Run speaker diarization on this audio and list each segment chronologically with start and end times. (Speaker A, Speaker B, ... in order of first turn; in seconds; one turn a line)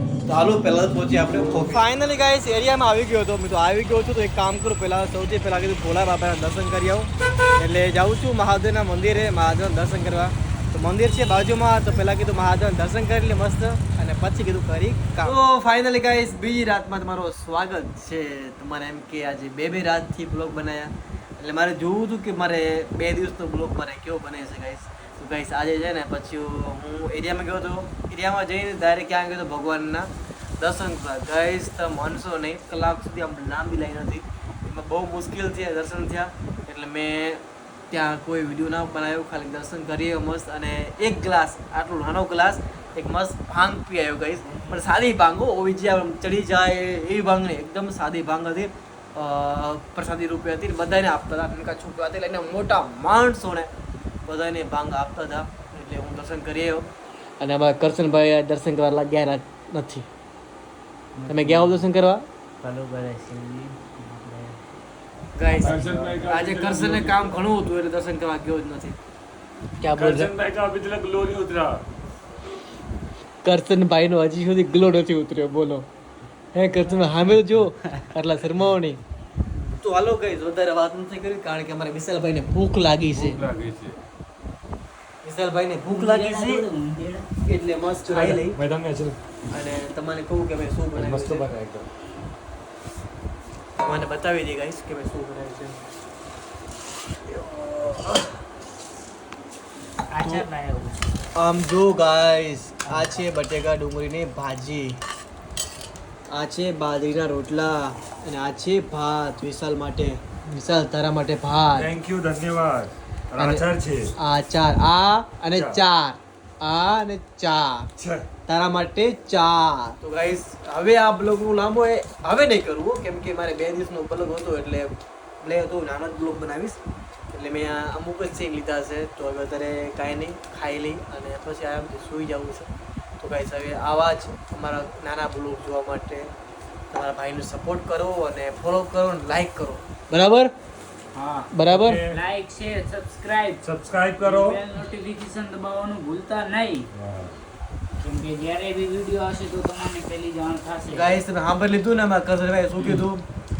Speaker A: 0.2-53.7
Speaker A: 54.3-60.1
Speaker B: 61.1-61.8
Speaker A: 61.3-62.2
Speaker B: 62.6-64.6
Speaker A: 65.3-69.0
Speaker B: 65.5-66.1
Speaker C: 65.6-67.4
Speaker A: 69.8-70.3
Speaker C: 70.0-71.8
Speaker A: 73.4-75.8
Speaker A: 76.5-79.0
Speaker A: 79.8-83.4
Speaker C: 83.1-84.0
Speaker A: 85.2-86.6
Speaker B: 85.9-87.3
Speaker A: 87.4-88.6
Speaker C: 88.1-89.2
Speaker A: 89.5-91.5
Speaker C: 91.0-91.9
Speaker A: 93.8-95.8
Speaker A: 97.3-98.3
Speaker B: 100.1-101.0
Speaker A: 101.3-105.0
Speaker A: 106.3-111.9
Speaker C: 111.7-114.1
Speaker A: 113.4-113.6
Speaker A: 114.2-117.9
Speaker C: 115.5-115.8
Speaker C: 118.0-118.3
Speaker A: 118.5-126.8
Speaker A: 127.3-136.3
Speaker A: 136.9-140.5
Speaker B: 141.1-143.6
Speaker A: 141.5-142.0
Speaker C: 141.7-142.2
Speaker C: 143.6-144.6
Speaker B: 144.2-146.9
Speaker C: 146.9-147.3
Speaker B: 148.0-151.2
Speaker A: 150.9-153.2